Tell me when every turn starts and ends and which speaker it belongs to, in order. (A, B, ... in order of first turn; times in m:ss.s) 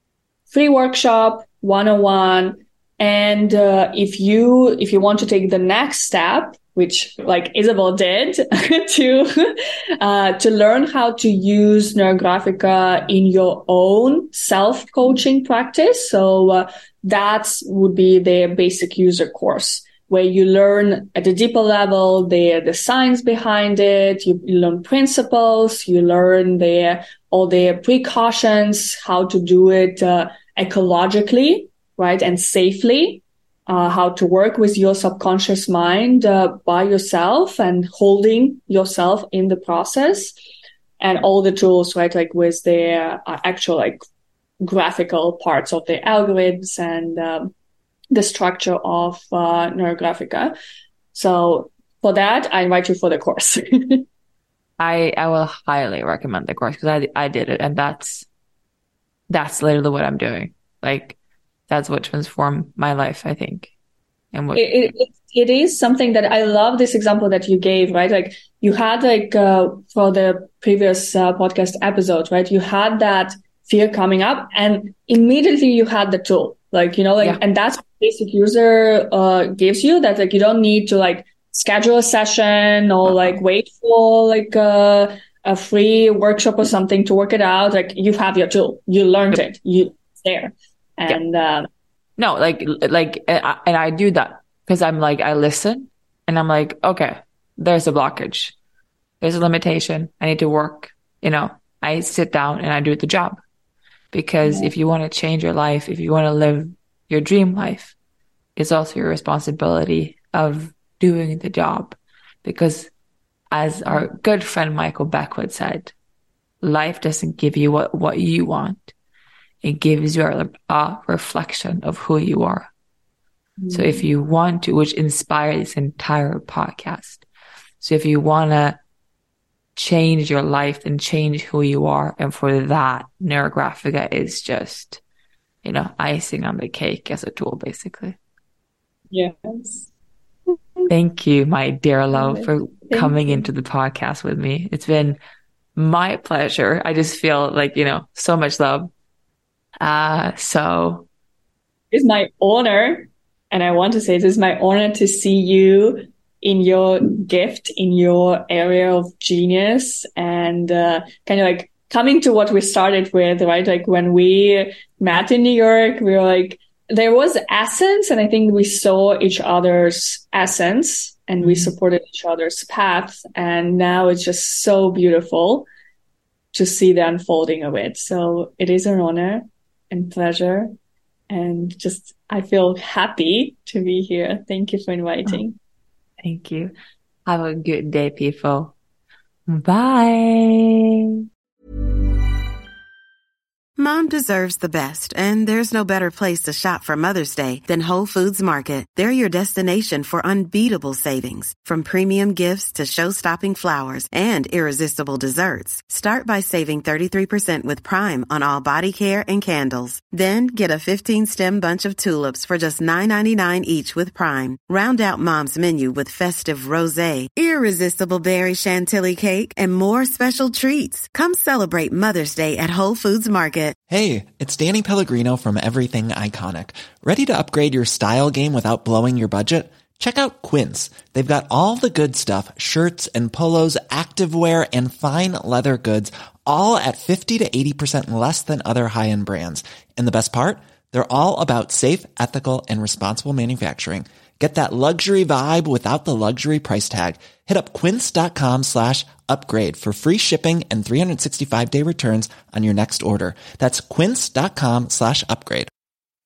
0:00.5-0:40.3 A
0:41.0-0:44.0 A
0:44.6-0:47.5 A
0:48.1-0:50.5 A
0:51.1-0:54.0 A
0:54.8-0:58.3 B
0:59.3-1:01.2 B
1:01.7-1:03.7 B
1:04.3-1:04.9 B
1:04.5-1:31.7 A
1:23.0-1:23.4 B
1:32.2-1:38.5 B
1:39.2-1:43.4 B
1:44.1-1:47.9 B
1:44.4-1:44.7 A
1:48.6-1:52.9 B
1:53.5-1:55.9 B
1:56.6-1:58.9 B
1:59.6-2:02.7 B
2:03.6-2:04.0 A
2:03.7-2:07.2 B
2:07.8-2:08.8 B
2:09.8-2:15.0 B
2:15.6-2:18.2 B
2:19.1-2:19.9 A
2:20.5-2:20.9 A
2:20.9-2:25.2 B
2:22.1-2:23.5 A
2:25.8-2:28.9 B
2:29.8-2:31.1 B
2:31.9-2:55.6 A
2:51.4-2:51.7 B
2:56.5-3:00.7 A
3:01.3-3:05.6 A
3:06.2-3:06.7 B
3:07.2-3:08.7 B
3:09.5-3:10.9 B
3:13.8-3:43.8 C
3:43.9-4:15.7 D